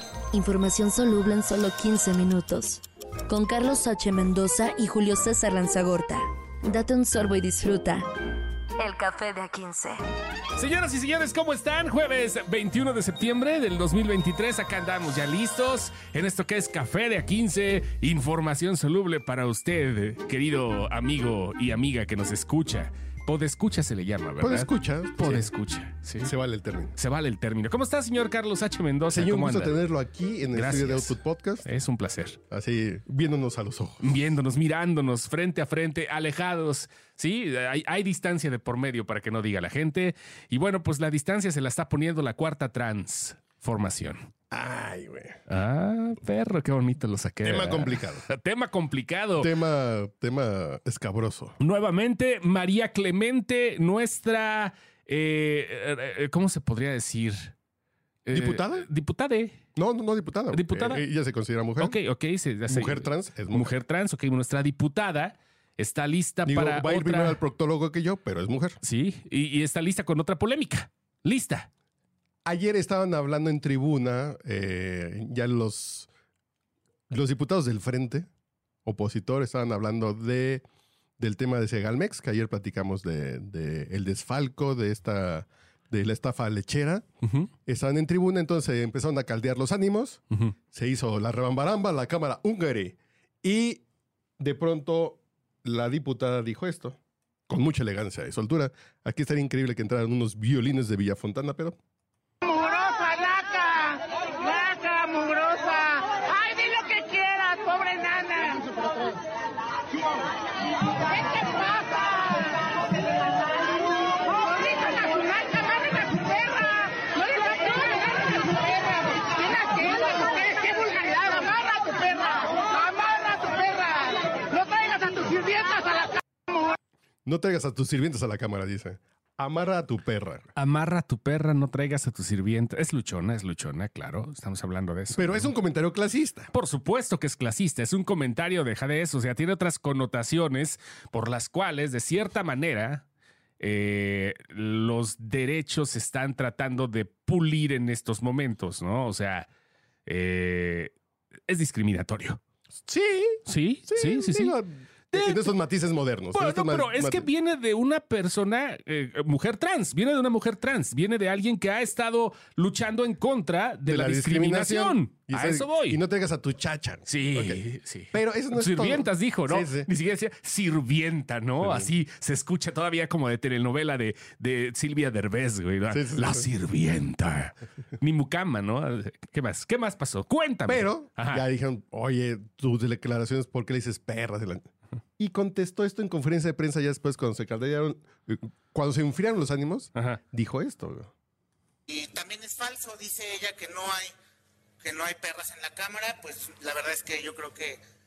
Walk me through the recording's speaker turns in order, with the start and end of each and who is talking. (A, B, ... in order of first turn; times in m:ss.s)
0:00.3-0:08.0 A
0:08.8-0:10.0 A
0:10.6-0:26.3 B
0:24.4-0:25.5 C
0:26.2-0:26.9 C
0:27.0-0:29.8 B
0:29.1-0:31.6 C
0:30.5-0:32.4 B
0:32.5-0:34.3 C
0:34.0-0:44.3 B
0:44.5-0:45.4 C
0:45.5-0:49.6 B
0:47.4-0:48.3 C
0:49.4-0:51.6 C
0:51.6-0:57.5 B
0:58.2-0:59.6 B
0:58.3-0:58.8 C
0:59.7-1:02.0 C
1:00.5-1:01.0 B
1:01.8-1:07.4 B
1:02.7-1:03.8 C
1:06.4-1:08.8 C
1:08.8-1:11.7 B
1:12.4-1:16.1 C
1:17.1-1:18.3 C
1:18.8-1:20.6 C
1:21.2-1:27.0 C
1:27.2-1:27.5 B
1:27.6-1:33.8 C
1:34.4-1:37.0 C
1:37.5-1:41.8 C
1:42.4-1:48.9 D
1:51.2-1:52.4 D
1:54.4-1:58.0 D
1:58.9-2:05.7 D
2:07.2-2:10.5 C
2:10.6-2:15.5 B
2:15.1-2:16.5 C
2:16.5-2:23.0 B
2:23.6-2:29.5 B
2:30.0-2:30.9 B
2:31.5-2:32.4 B
2:32.8-2:37.3 C
2:33.4-2:34.6 B
2:35.1-2:35.5 B
2:36.3-2:46.0 B
2:43.8-2:49.9 C
2:47.1-3:01.4 B
2:51.6-2:51.9 C
2:55.9-2:56.5 C
3:00.7-3:11.1 C
3:09.9-3:10.2 B
3:11.9-3:14.1 E
3:14.8-3:17.8 E